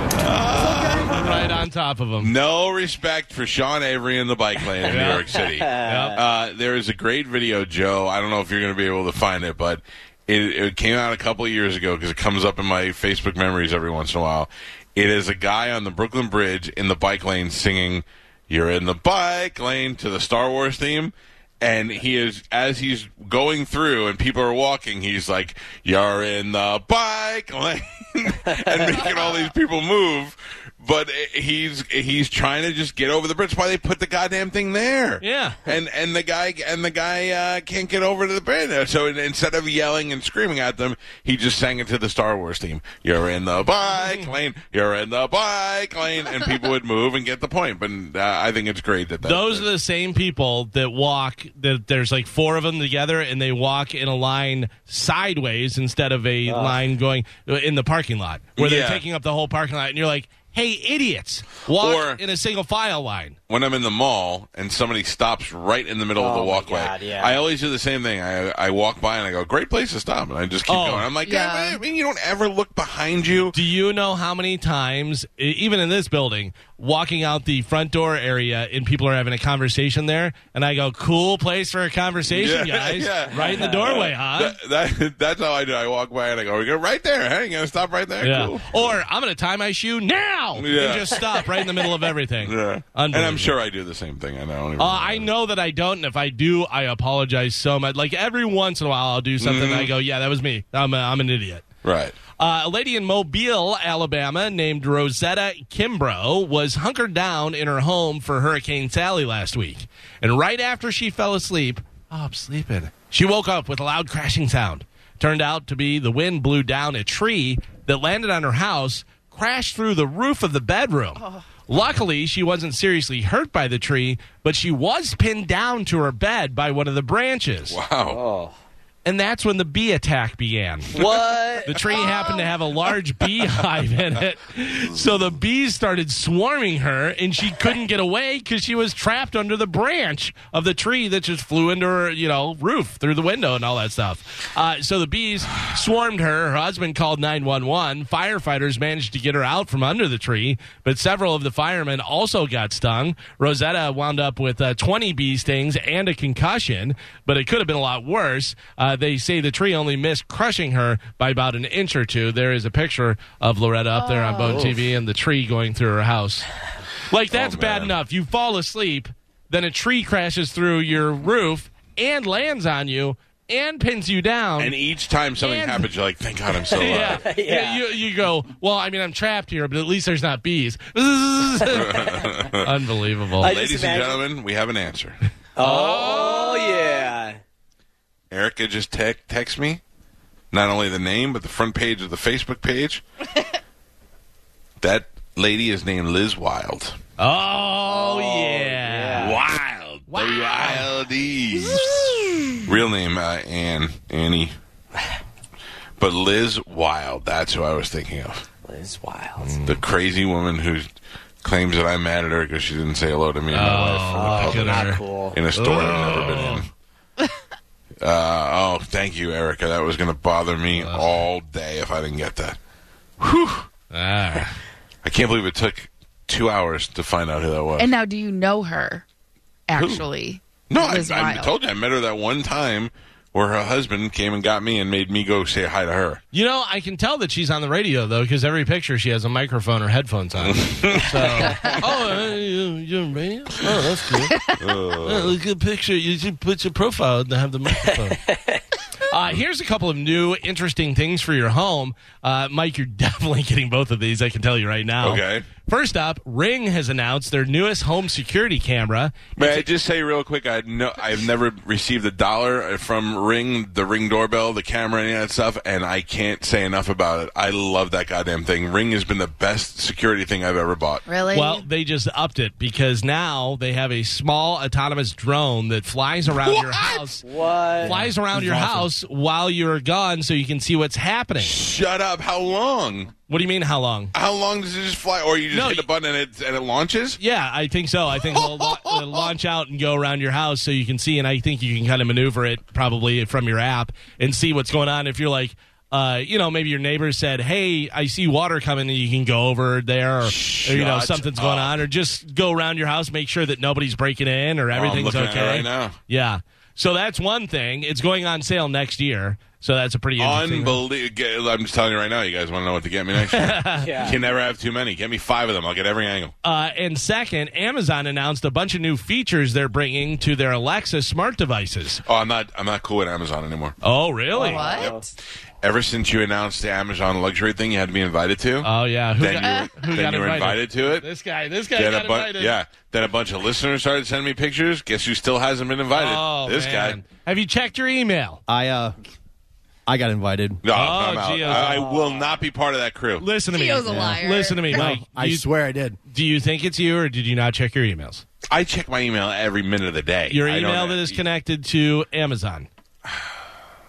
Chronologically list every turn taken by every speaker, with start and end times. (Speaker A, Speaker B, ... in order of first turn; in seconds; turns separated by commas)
Speaker A: 0.1-1.5, Speaker B: 0.9-2.3, Speaker A: 2.2-49.7, Speaker B: 4.9-6.2, Speaker C: 5.5-6.2, Speaker B: 35.2-35.6, Speaker B: 44.0-44.3, Speaker B: 49.2-63.4, Speaker C: 56.5-56.8, Speaker A: 58.6-59.0, Speaker A: 61.7-62.2, Speaker A: 63.5-73.5, Speaker C: 66.2-67.4, Speaker B: 70.7-71.1, Speaker D: 71.2-71.8, Speaker B: 73.5-84.6, Speaker A: 82.3-88.9, Speaker C: 83.4-83.8, Speaker B: 88.2-93.5, Speaker A: 90.6-91.2, Speaker A: 92.4-95.3, Speaker B: 94.8-101.7, Speaker A: 99.4-99.9, Speaker A: 101.8-102.2, Speaker B: 102.4-127.8, Speaker A: 127.7-128.2, Speaker C: 128.1-128.6, Speaker B: 129.1-131.1, Speaker C: 130.9-131.8, Speaker B: 131.7-166.5, Speaker D: 132.0-132.4, Speaker D: 163.9-164.7, Speaker B: 167.1-174.7, Speaker A: 167.3-168.0, Speaker A: 174.6-177.3, Speaker B: 175.4-175.9, Speaker C: 176.7-177.8, Speaker B: 176.7-183.6, Speaker A: 181.7-182.8, Speaker A: 183.4-185.2, Speaker C: 183.4-184.2, Speaker C: 185.6-187.4, Speaker B: 185.6-186.9, Speaker A: 188.3-189.8, Speaker A: 190.5-193.0, Speaker A: 194.8-197.0, Speaker B: 197.2-199.5, Speaker C: 197.9-199.4, Speaker A: 199.2-201.8, Speaker B: 200.1-200.9, Speaker B: 201.7-202.6, Speaker A: 202.7-204.6, Speaker A: 206.0-208.4, Speaker C: 208.7-209.5, Speaker B: 209.4-209.8, Speaker A: 209.7-210.9, Speaker A: 211.4-216.7, Speaker B: 213.5-215.0, Speaker C: 214.1-215.4, Speaker B: 215.6-216.6, Speaker A: 218.0-222.6, Speaker B: 220.8-221.1, Speaker A: 223.2-223.7, Speaker B: 223.9-224.6, Speaker A: 225.0-227.9, Speaker D: 227.8-229.0, Speaker D: 229.7-231.5, Speaker A: 229.8-230.1, Speaker A: 230.7-236.2, Speaker B: 236.3-244.4, Speaker A: 240.4-241.6, Speaker A: 244.6-245.3, Speaker B: 245.0-248.2, Speaker C: 248.1-248.6, Speaker B: 249.1-259.7, Speaker A: 255.0-255.5, Speaker A: 259.4-271.0, Speaker D: 271.1-271.6, Speaker B: 271.3-277.2, Speaker A: 276.4-277.1, Speaker C: 277.2-278.0, Speaker B: 277.8-281.6, Speaker A: 277.9-278.5, Speaker A: 281.4-283.1, Speaker B: 283.3-284.1, Speaker A: 284.1-287.2, Speaker B: 285.5-285.9, Speaker B: 287.2-310.8, Speaker A: 288.3-289.3, Speaker A: 300.2-301.8, Speaker A: 304.7-306.0, Speaker A: 310.2-316.3, Speaker B: 313.2-313.9, Speaker C: 313.8-314.2, Speaker B: 316.4-322.0, Speaker A: 322.1-323.8, Speaker B: 323.8-324.7, Speaker C: 324.3-325.1, Speaker D: 324.4-325.0, Speaker A: 325.6-331.1, Speaker B: 328.6-332.5, Speaker A: 331.8-337.0, Speaker B: 335.9-338.4, Speaker E: 338.5-339.0, Speaker E: 339.9-340.6, Speaker A: 340.6-343.3, Speaker B: 340.7-341.9, Speaker C: 341.4-342.4, Speaker B: 343.2-345.5, Speaker D: 343.5-344.9, Speaker E: 343.9-346.0, Speaker B: 346.1-348.2, Speaker A: 348.5-351.2, Speaker B: 350.3-352.7